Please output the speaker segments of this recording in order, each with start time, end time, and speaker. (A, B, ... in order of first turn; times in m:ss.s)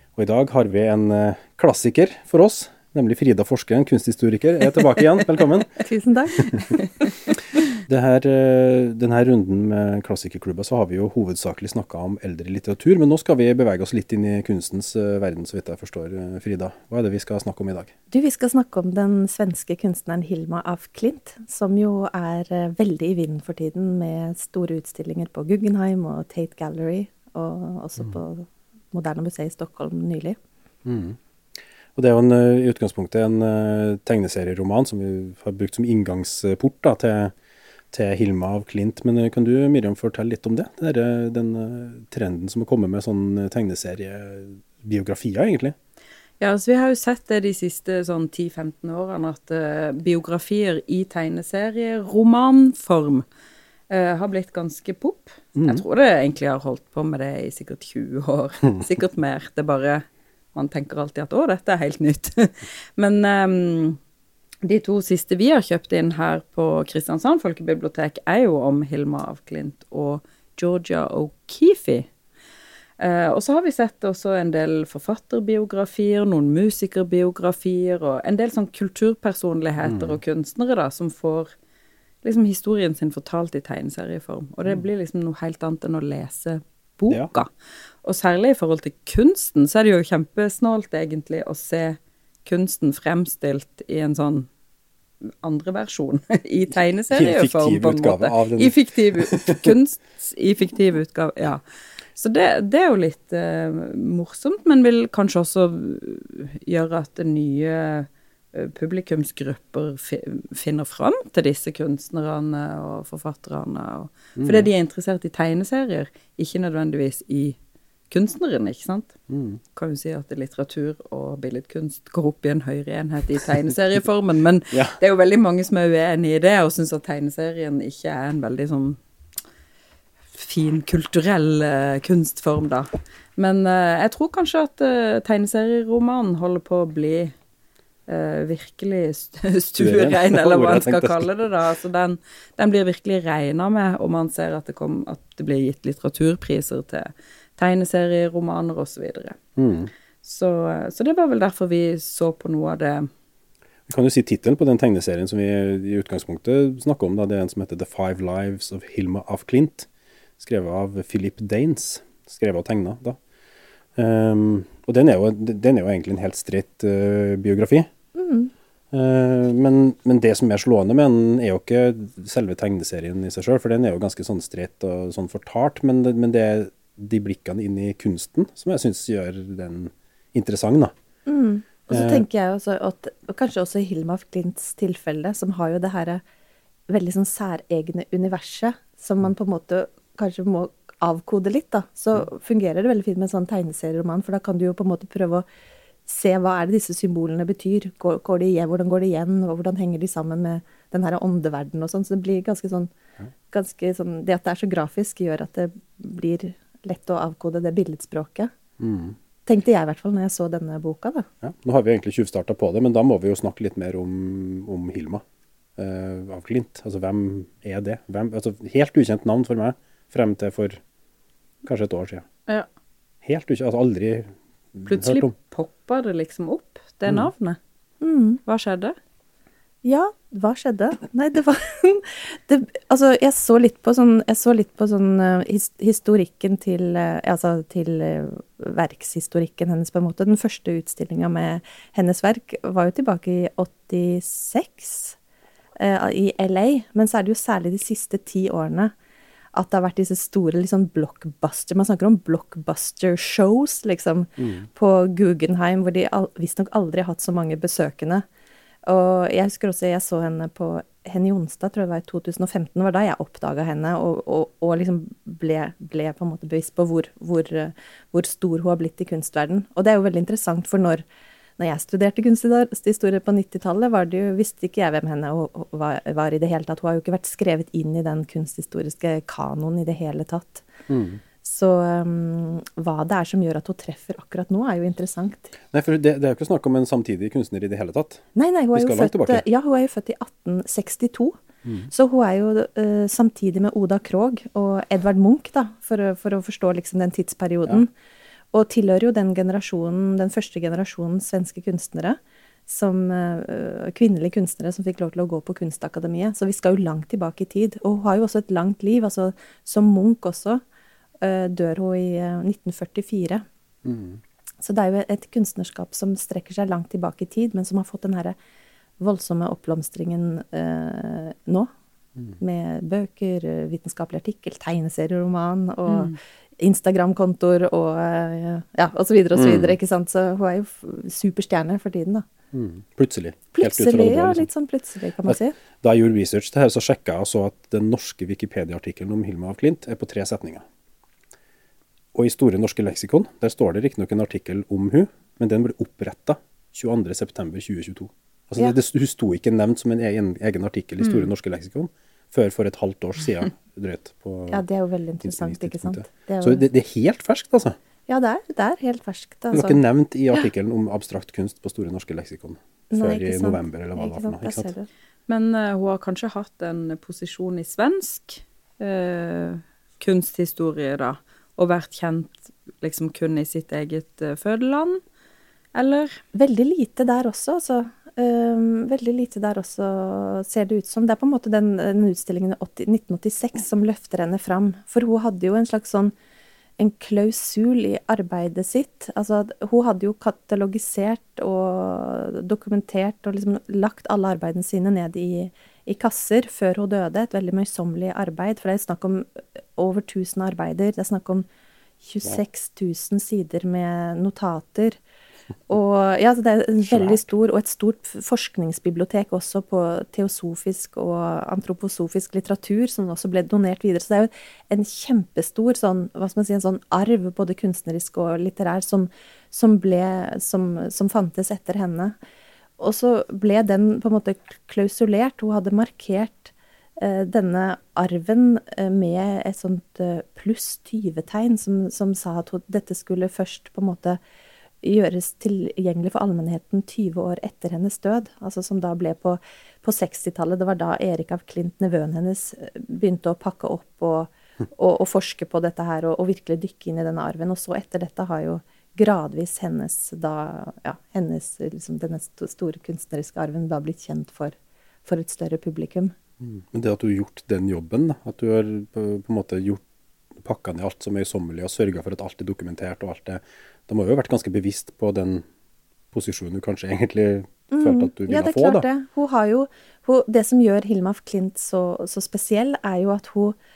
0:00.2-0:05.8 A
0:05.8-0:06.9 B
0:07.8-0:17.9 A
0:18.1-0:30.4 B
0:30.8-0:31.2 A
0:31.9-0:37.3 A
0:37.9-0:45.8 A
0:46.4-0:53.2 C
0:53.9-1:04.0 C
0:55.6-0:55.8 A
1:04.6-1:12.1 C
1:13.0-1:21.5 C
1:19.8-1:20.2 A
1:22.2-1:27.5 C
1:28.0-1:34.5 C
1:35.4-1:41.6 C
1:37.1-1:39.7 A
1:42.1-1:57.6 C
1:54.4-1:54.7 A
1:58.1-1:59.1 C
1:59.3-1:59.6 A
1:59.7-2:09.0 C
2:04.7-2:05.0 A
2:10.3-2:17.3 C
2:18.1-2:29.4 C
2:19.8-2:21.3 A
2:29.6-2:29.9 A
2:30.2-2:33.1 C
2:33.9-2:39.9 A
2:40.4-2:43.2 A
2:44.0-2:47.9 A
2:48.1-2:48.5 B
2:48.9-3:00.9 A
3:01.2-3:06.2 B
3:01.9-3:02.2 A
3:06.9-3:15.4 B
3:16.0-3:22.9 B
3:23.5-3:28.5 B
3:28.8-3:29.2 A
3:29.4-3:31.3 B
3:31.4-3:35.2 A
3:35.8-3:40.8 A
3:41.6-3:42.2 A
3:43.2-3:45.3 A
3:44.9-3:47.6 C
3:48.0-3:48.4 B
3:48.4-3:49.0 C
3:49.8-4:05.2 B
4:05.8-4:08.9 B
4:09.5-4:18.2 B
4:14.4-4:14.7 A
4:18.9-4:31.0 B
4:31.6-4:40.7 B
4:40.9-4:41.2 A
4:41.4-4:45.5 B
4:45.7-4:49.4 A
4:48.3-4:51.4 B
4:51.9-4:57.9 B
4:58.5-5:10.6 B
5:11.2-5:13.4 B
5:13.8-5:14.2 A
5:14.6-5:18.3 B
5:19.0-5:21.7 B
5:22.4-5:32.2 B
5:25.9-5:26.1 C
5:29.3-5:29.8 A
5:32.5-5:34.5 A
5:33.5-5:35.6 B
5:35.3-5:40.6 A
5:42.1-5:54.6 A
5:54.5-5:56.6 B
5:55.2-5:57.8 A
5:58.1-5:59.8 B
5:59.5-6:04.7 A
6:02.9-6:04.9 B
6:05.3-6:15.0 C
6:15.7-6:16.2 C
6:16.3-6:26.1 B
6:26.8-6:41.4 B
6:42.0-6:45.0 B
6:45.7-7:02.2 B
6:46.9-6:47.2 A
7:02.8-7:14.2 B
7:14.8-7:36.1 B
7:36.4-7:39.8 A
7:40.3-7:45.4 A
7:46.1-7:48.8 A
7:47.7-7:53.6 B